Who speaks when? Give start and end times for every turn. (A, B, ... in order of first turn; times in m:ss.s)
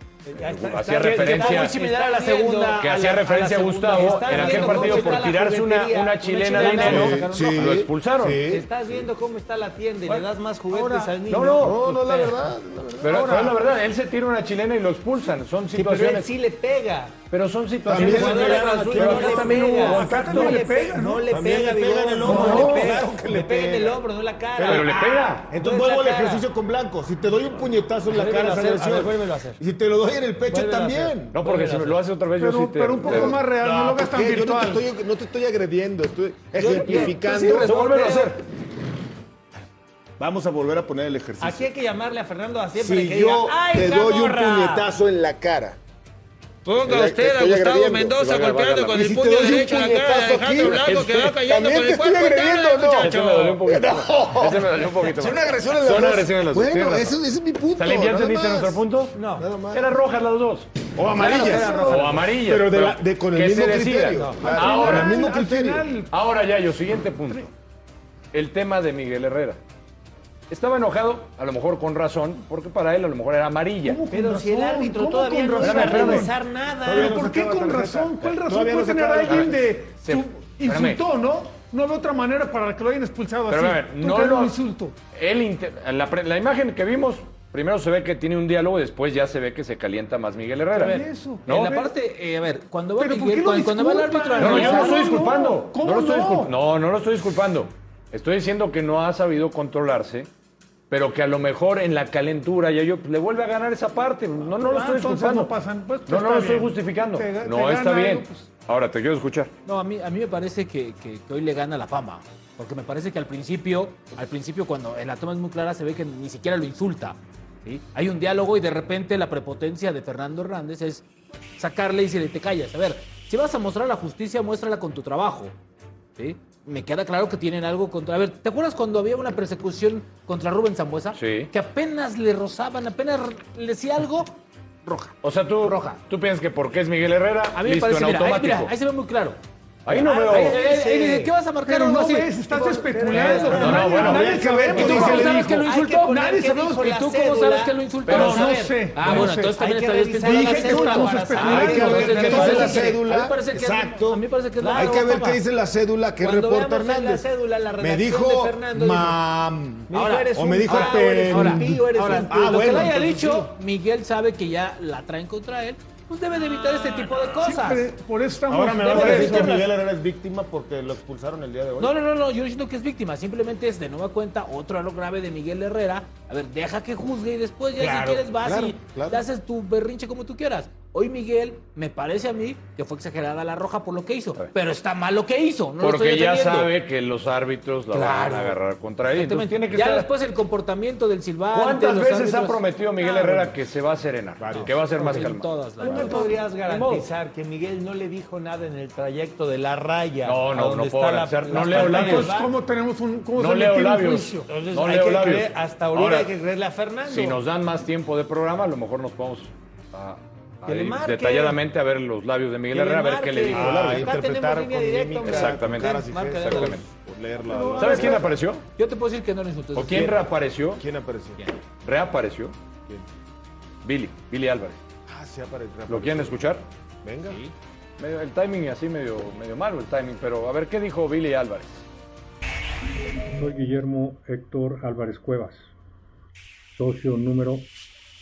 0:00.2-0:07.8 A
0:00.4-0:01.8 B
0:01.1-0:02.8 C
0:02.7-0:08.4 B
0:04.0-0:05.2 C
0:06.6-0:08.7 D
0:08.4-0:12.4 A
0:10.7-0:11.2 E
0:11.3-0:11.8 B
0:11.6-0:13.4 D
0:13.0-0:16.3 B
0:13.0-0:13.6 E
0:15.7-0:17.2 A
0:17.3-0:20.7 B
0:17.8-0:19.8 D
0:17.9-0:26.4 A
0:19.4-0:21.3 E
0:21.3-0:24.0 D
0:22.2-0:22.9 E
0:24.6-0:31.3 D
0:24.6-0:25.5 B
0:28.1-0:29.6 A
0:30.5-0:32.0 A
0:31.3-0:33.4 B
0:32.4-0:34.8 E
0:33.0-0:37.7 D
0:36.6-0:38.3 A
0:36.9-0:38.4 B
0:40.2-0:41.7 D
0:41.4-0:44.9 A
0:42.8-0:45.8 D
0:46.7-0:53.6 C
0:46.8-0:58.8 D
0:48.2-0:49.1 B
0:50.6-0:51.2 B
0:53.0-0:57.2 B
0:57.8-0:59.2 B
0:59.1-0:59.5 A
0:59.4-0:59.9 D
0:59.7-1:00.7 B
1:01.0-1:05.9 D
1:01.2-1:02.1 A
1:01.2-1:02.1 E
1:01.7-1:05.2 B
1:04.1-1:04.4 A
1:04.4-1:06.1 E
1:06.1-1:07.5 B
1:08.3-1:09.6 B
1:10.5-1:14.0 B
1:13.8-1:16.3 E
1:14.1-1:17.2 A
1:15.6-1:16.3 B
1:15.8-1:16.1 D
1:16.8-1:19.7 D
1:16.9-1:24.9 E
1:20.0-1:21.0 B
1:23.5-1:24.6 B
1:25.1-1:31.8 B
1:30.8-1:31.9 E
1:30.8-1:35.2 C
1:33.0-1:36.5 E
1:34.4-1:40.3 B
1:40.9-1:45.5 B
1:44.6-1:48.5 E
1:46.1-1:49.5 B
1:49.6-2:01.0 C
2:01.6-2:05.5 C
2:06.2-2:16.0 C
2:11.1-2:11.5 B
2:15.2-2:18.7 B
2:17.5-2:19.4 C
2:19.8-2:20.6 B
2:19.9-2:23.9 C
2:19.9-2:21.3 A
2:21.6-2:26.8 E
2:22.7-2:23.8 A
2:23.4-2:24.4 B
2:23.6-2:25.6 D
2:24.8-2:27.8 A
2:24.8-2:35.4 C
2:28.1-2:29.2 B
2:28.1-2:29.6 E
2:29.0-2:32.9 A
2:30.2-2:33.0 E
2:31.4-2:37.2 D
2:34.6-2:35.2 A
2:36.2-2:39.2 A
2:37.8-2:43.2 D
2:39.9-2:43.4 A
2:39.9-2:47.9 C
2:47.4-2:49.6 E
2:48.5-2:51.9 D
2:48.8-2:49.6 C
2:51.8-3:06.7 C
2:57.8-2:59.2 D
3:05.8-3:10.1 B
3:07.9-3:08.6 C
3:09.1-3:13.5 C
3:11.5-3:15.4 B
3:14.4-3:14.7 D
3:14.6-3:16.3 C
3:15.8-3:22.5 A
3:16.0-3:16.3 E
3:16.7-3:17.0 B
3:20.2-3:22.3 B
3:21.7-3:24.5 E
3:23.4-3:26.3 B
3:24.5-3:27.4 A
3:27.0-3:34.1 B
3:30.6-3:31.6 A
3:32.7-3:36.8 A
3:33.5-3:38.2 D
3:35.2-3:36.8 B
3:37.4-3:38.3 E
3:37.8-3:38.6 B
3:38.8-3:40.2 C
3:39.7-3:40.8 B
3:40.7-3:41.4 D
3:41.8-3:42.5 B
3:43.8-3:44.8 B
3:45.1-3:46.4 D
3:45.9-3:46.6 B
3:47.0-3:47.4 D
3:47.3-3:47.5 C
3:48.0-3:51.8 B
3:53.3-3:55.7 F
3:56.7-3:57.7 F